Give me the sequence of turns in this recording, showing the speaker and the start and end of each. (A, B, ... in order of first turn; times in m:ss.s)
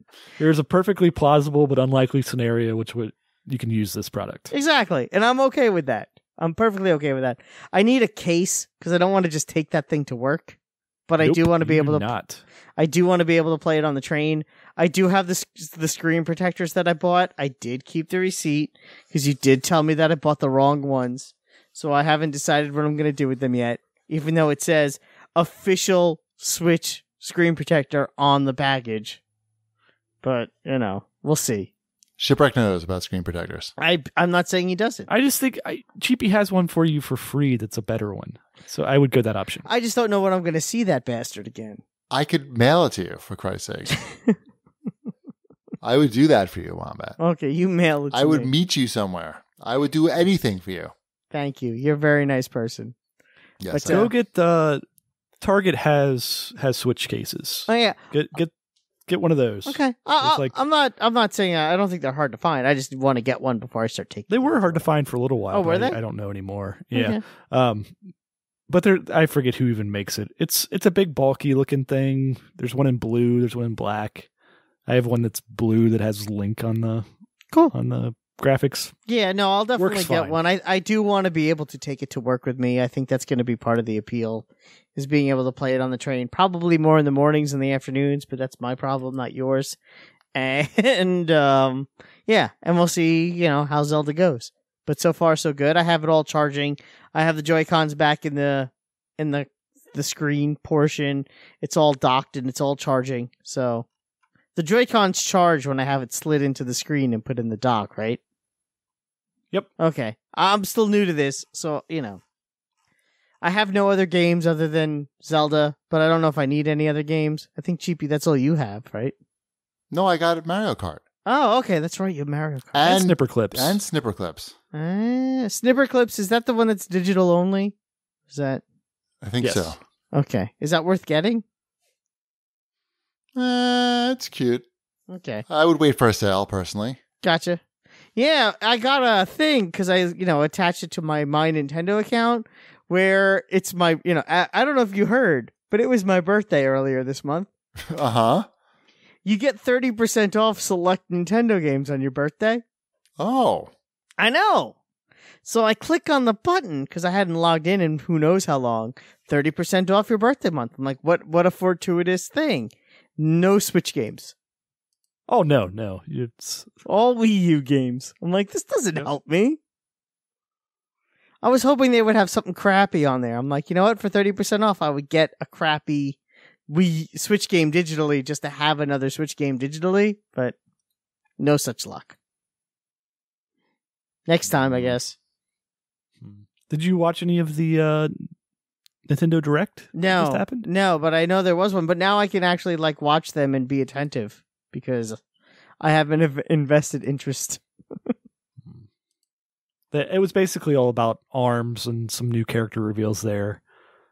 0:00.4-0:04.5 A
0:04.5-0:10.6 B
0:11.1-0:12.1 B
0:11.2-0:12.4 A
0:12.8-0:29.2 B
0:30.2-0:31.7 B
0:32.2-0:33.7 C
0:33.8-0:35.1 B
0:35.1-0:39.7 A
0:39.6-0:41.8 B
0:42.1-0:43.9 C
0:43.9-0:44.3 B
0:45.8-0:47.2 C
0:47.2-0:48.5 B
0:48.1-0:50.9 C
0:51.3-0:53.0 B
0:53.6-0:54.1 C
0:53.7-0:54.1 B
0:53.9-0:54.8 A
0:55.4-0:58.5 A
0:57.7-0:58.1 B
0:59.1-1:00.6 A
0:59.7-1:04.8 B
1:04.3-1:08.0 A
1:05.5-1:06.0 B
1:06.9-1:07.2 B
1:08.7-1:14.3 A
1:14.9-1:17.1 A
1:17.7-1:18.9 A
1:19.1-1:29.8 B
1:19.8-1:20.4 A
1:30.3-1:43.9 B
1:44.6-1:48.2 B
1:49.8-1:52.2 B
1:53.4-1:59.1 B
1:59.9-2:01.0 C
2:01.3-2:03.0 B
2:02.7-2:04.5 C
2:02.8-2:03.8 A
2:04.7-2:07.8 B
2:08.3-2:08.6 B
2:09.2-2:09.8 C
2:09.4-2:09.8 A
2:10.1-2:11.4 B
2:13.4-2:14.6 C
2:15.1-2:15.5 B
2:15.5-2:17.0 C
2:17.2-2:17.6 B
2:18.2-2:27.5 B
2:27.9-2:28.5 C
2:29.2-2:32.6 B
2:33.2-2:33.7 C
2:34.2-2:34.8 B
2:35.4-2:44.3 B
2:45.3-2:46.7 A
2:46.8-2:49.6 B
2:51.4-3:00.6 B
3:01.4-3:02.2 B
3:04.3-3:05.2 B
3:06.2-3:08.3 A
3:09.1-3:10.7 A
3:09.9-3:15.2 B
3:15.8-3:18.1 B
3:19.9-3:23.6 A